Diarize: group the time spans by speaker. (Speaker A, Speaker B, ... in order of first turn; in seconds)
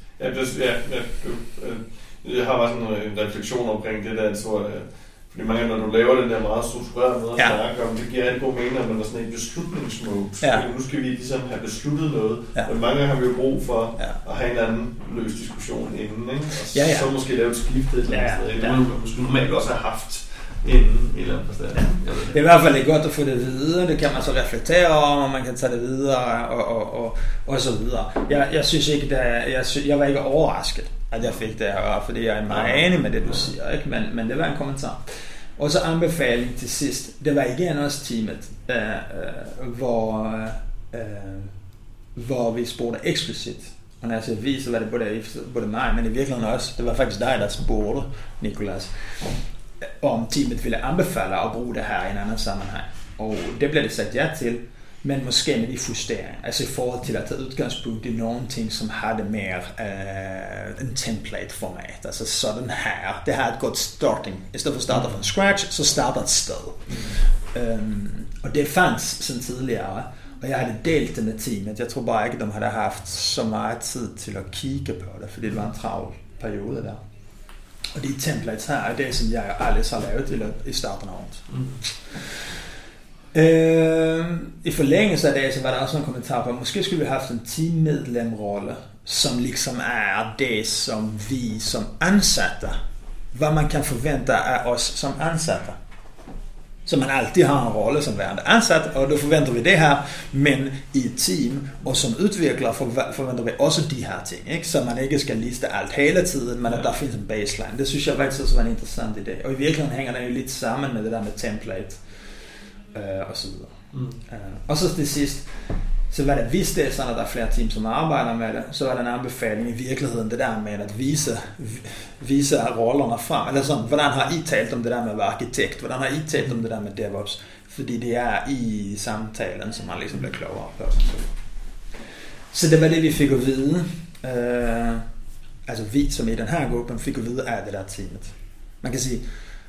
Speaker A: 0.2-22.4, 32.5-33.5, 64.9-65.2, 66.9-67.2, 81.5-81.8, 106.7-106.9, 113.9-114.2
Speaker B: 16.7-17.1, 18.1-18.8, 21.8-41.5, 42.1-77.0, 77.9-82.5, 83.3-92.8, 93.3-95.8, 96.9-131.8, 132.5-135.0, 135.7-139.2